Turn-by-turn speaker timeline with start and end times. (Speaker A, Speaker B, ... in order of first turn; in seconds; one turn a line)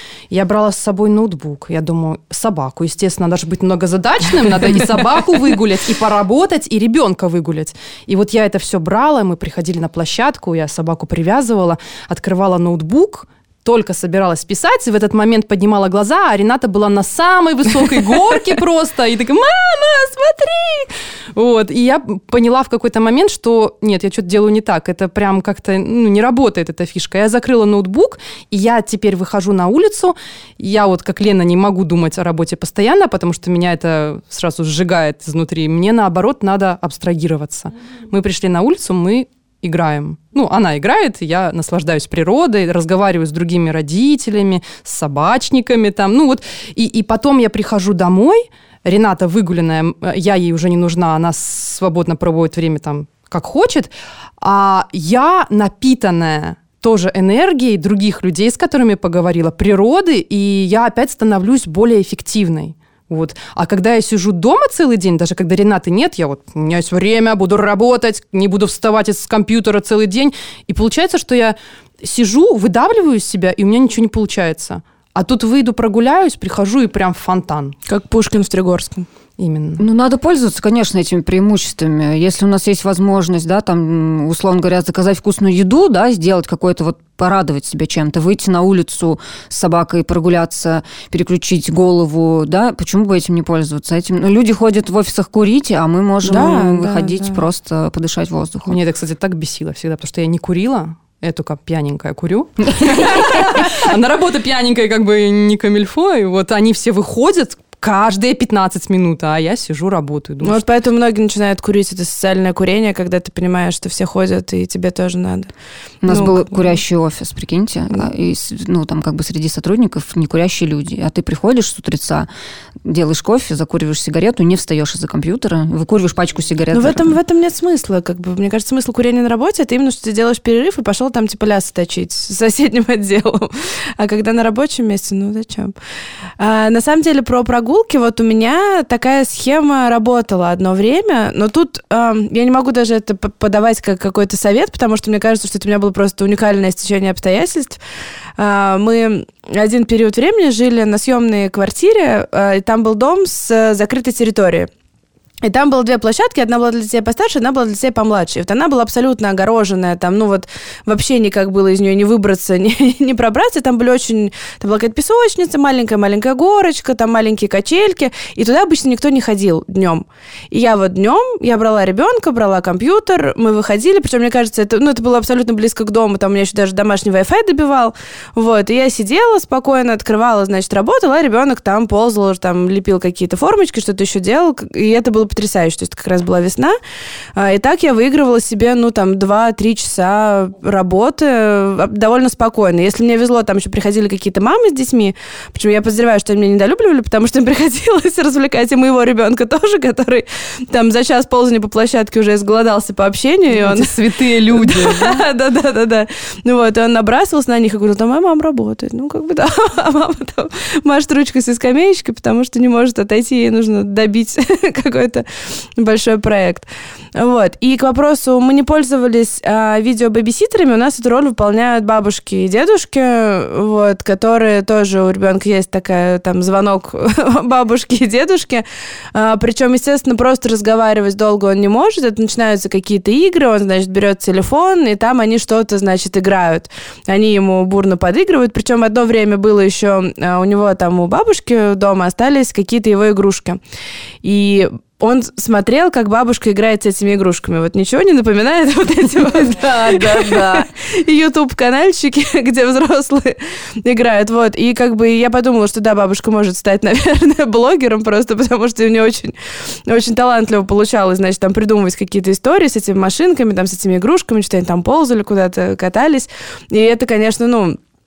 Speaker A: 0.3-77.8
Speaker B: 77.9-79.1
Speaker A: 79.4-79.8
Speaker C: 79.8-98.8
Speaker B: 96.2-97.5
Speaker A: 98.7-110.7
Speaker B: 110.4-115.5
Speaker C: 116.0-122.3
Speaker B: 116.0-116.8
Speaker C: 122.8-127.2
Speaker B: 126.7-135.7
Speaker B: 136.4-147.8
Speaker B: 148.4-154.7
Speaker B: 155.4-186.8
Speaker B: 187.4-215.3
Speaker A: 203.5-205.2
Speaker B: 215.8-243.6
Speaker B: 244.2-259.4
Speaker B: 259.9-267.8